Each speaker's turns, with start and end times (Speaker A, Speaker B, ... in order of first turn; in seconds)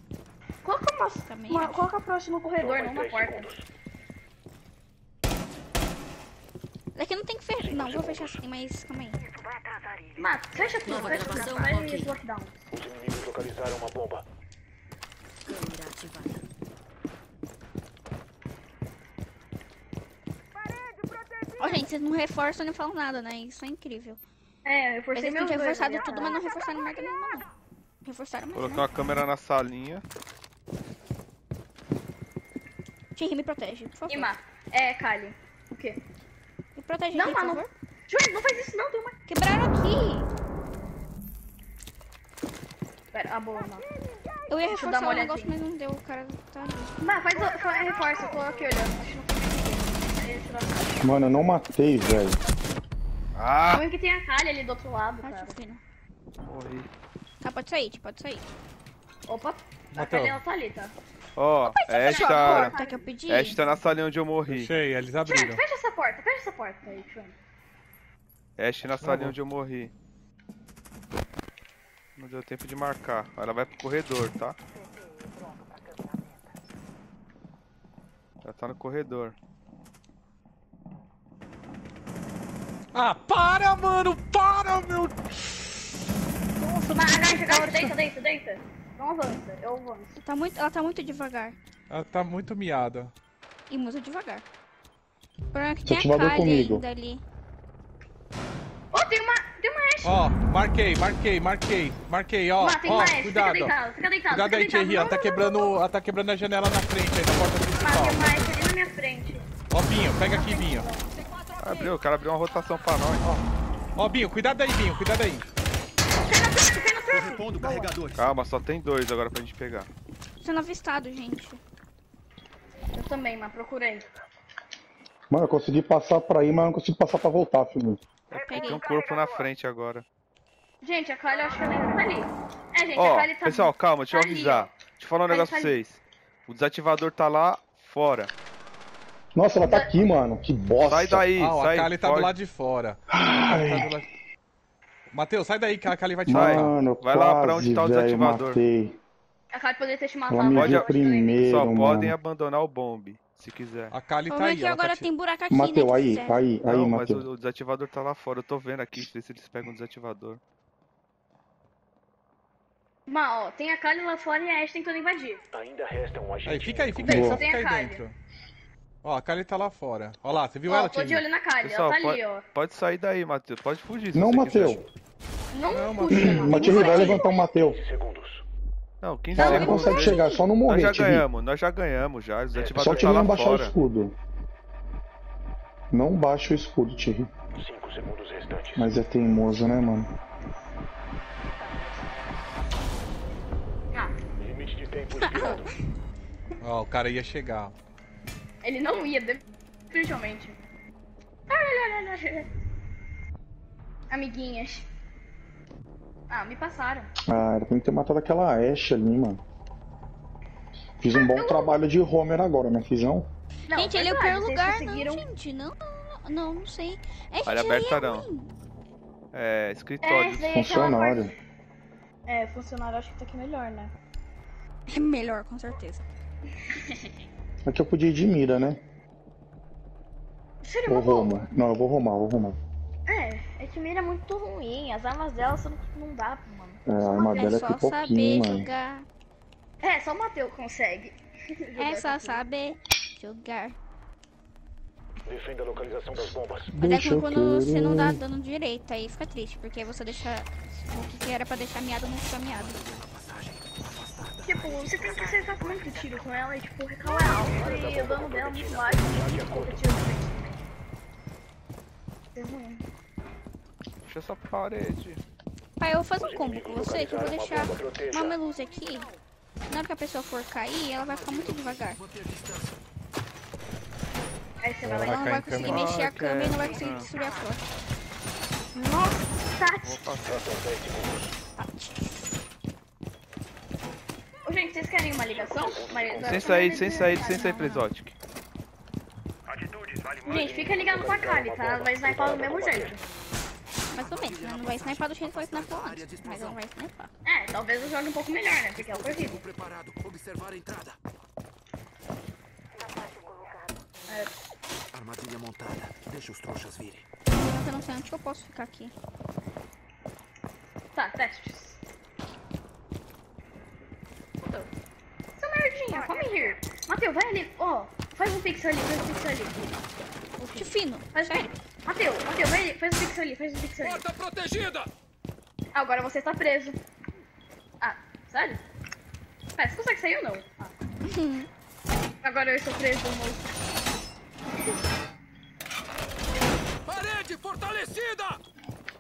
Speaker A: 0.6-3.5, 10.2-12.6, 24.6-26.4, 34.1-36.0, 37.1-39.2, 43.1-43.9, 44.7-45.5, 47.0-51.0, 53.7-55.5, 59.3-60.9, 62.0-63.1, 65.2-67.3, 86.9-90.2, 98.9-100.2, 102.6-105.7, 107.8-109.5, 110.2-111.0, 116.2-117.9, 122.9-124.0, 130.8-134.8, 135.3-135.8, 139.6-139.9, 149.5-151.4, 163.1-165.4, 167.0-168.0, 170.7-172.4, 175.5-177.3, 179.4-180.4, 198.6-200.6, 201.5-202.5, 204.1-204.9, 206.3-207.1, 211.1-211.8, 213.7-215.2, 220.0-221.3, 222.3-223.9, 226.7-227.1, 230.6-231.4, 233.1-237.6, 239.8-242.4, 254.4-260.6, 262.3-262.8, 274.6-275.4, 278.7-280.0, 284.4-287.6, 290.2-293.0, 297.2-299.4, 310.9-311.8, 315.4-319.7, 320.4-324.0, 325.7-326.8, 327.8-328.6, 329.6-330.7, 332.2-333.5
Speaker B: 1.3-1.8, 7.0-9.2, 21.6-24.2, 25.1-27.5, 28.0-28.9, 33.2-34.3, 36.8-37.7, 39.3-40.3, 44.5-47.0, 55.2-55.8, 57.4-58.4, 61.7-63.6, 90.2-91.5, 93.7-94.4, 95.5-97.2, 120.4-121.6, 128.5-128.8, 154.3-156.4, 195.2-195.7, 213.7-218.5, 224.9-226.0, 237.2-239.1, 241.8-243.8, 246.8-252.8, 265.8-269.1, 269.7-272.0, 275.0-277.6, 281.6-282.0, 286.4-287.9, 293.9-297.1, 307.3-308.9, 320.5-321.5, 331.0-331.5
Speaker C: 2.6-3.6, 7.6-8.4, 12.7-14.2, 128.3-129.5, 165.5-167.2, 177.5-178.4, 182.5-183.6, 187.6-188.9, 194.4-195.7, 245.3-246.7, 257.3-259.8, 266.2-268.4, 280.2-281.3, 285.3-286.6, 289.5-293.0
Speaker D: 10.5-12.2, 15.4-16.4, 111.6-112.0
Speaker E: 28.6-30.0, 53.3-53.9, 56.4-56.9, 61.4-62.8, 63.3-64.7, 68.6-69.9, 72.2-74.6, 78.4-79.3, 111.6-113.3, 118.1-119.9, 128.3-130.1, 132.9-138.3, 140.8-142.3, 146.3-148.6, 150.5-153.9, 156.6-160.4, 171.6-174.8, 179.0-183.7, 217.5-218.3, 219.3-220.6, 264.0-265.2, 275.6-277.1, 279.8-280.5, 286.2-288.1
Speaker F: 51.0-52.4, 95.9-96.8, 125.3-128.0, 139.3-141.3, 143.1-143.9, 146.3-149.0, 150.3-152.2, 155.5-157.2, 167.1-167.4, 174.1-174.8, 176.1-177.8, 179.3-181.3, 182.8-184.2, 185.9-187.3, 188.8-190.1, 207.3-209.4, 211.0-213.3, 220.5-221.3, 227.7-228.8, 230.9-232.6, 236.9-238.7, 246.7-248.2
Speaker G: 59.9-60.4, 64.5-65.6, 68.9-69.4, 82.9-85.3, 86.6-87.9, 91.9-93.1, 100.0-103.8, 104.3-108.6, 109.7-110.9, 114.0-115.4, 141.4-144.1, 145.1-146.9, 153.9-155.1, 166.4-168.2, 169.0-171.2, 175.7-177.0, 196.6-197.7, 274.8-276.0
Speaker H: 117.1-118.4, 252.5-255.4, 270.9-272.8, 293.9-296.6, 298.7-301.0, 304.9-307.1, 323.8-324.9, 336.8-338.4